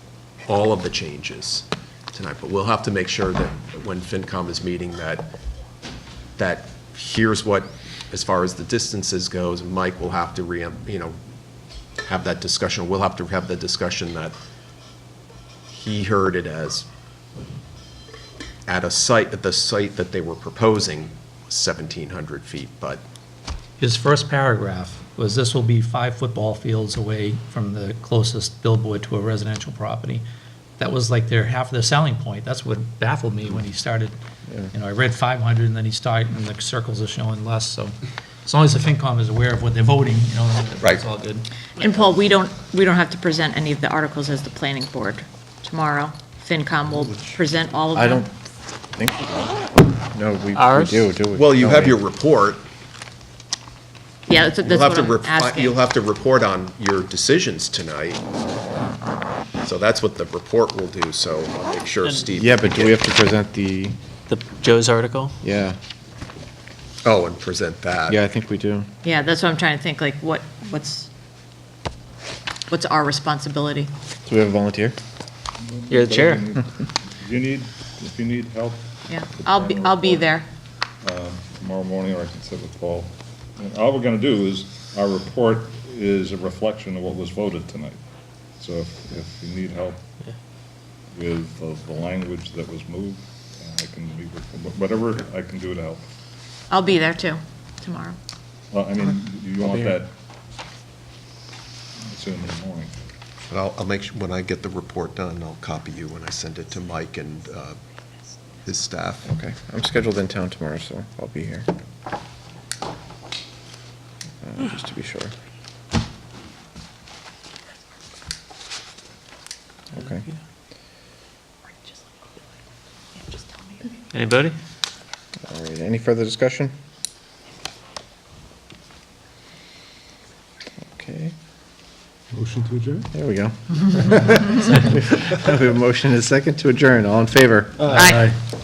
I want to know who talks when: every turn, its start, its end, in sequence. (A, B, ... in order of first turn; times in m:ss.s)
0:00.5-0:05.3 A
0:06.4-0:11.2 A
0:12.0-0:14.4 A
0:15.7-0:16.9 A
0:18.7-0:23.0 A
0:23.8-0:30.2 B
0:30.8-0:34.2 B
0:34.7-0:41.5 B
0:41.8-0:48.3 C
0:48.0-0:48.3 D
0:48.9-0:52.0 D
0:50.6-0:51.1 E
0:51.3-0:52.6 A
0:54.3-0:55.8 C
0:54.6-0:58.2 A
0:59.6-1:03.0 A
1:02.3-1:04.0 D
1:04.3-1:05.4 E
1:05.4-1:05.8 D
1:07.0-1:08.2 A
1:08.1-1:08.9 D
1:09.0-1:11.1 C
1:12.7-1:13.9 C
1:14.3-1:15.0 D
1:15.6-1:20.3 F
1:15.9-1:16.4 E
1:19.1-1:20.5 C
1:21.0-1:28.0 F
1:28.6-1:30.1 F
1:31.1-1:36.0 F
1:36.7-1:38.2 C
1:38.7-1:40.1 F
1:42.1-1:42.9 F
1:43.5-1:47.8 A
1:48.6-1:49.3 A
1:49.3-1:51.7 D
1:54.4-1:55.3 D
2:00.0-2:00.3 D
2:04.1-2:04.6 E
2:05.5-2:06.7 D
2:11.0-2:11.3 D
2:12.5-2:13.0 C
2:13.1-2:18.3 D
2:17.8-2:18.3 C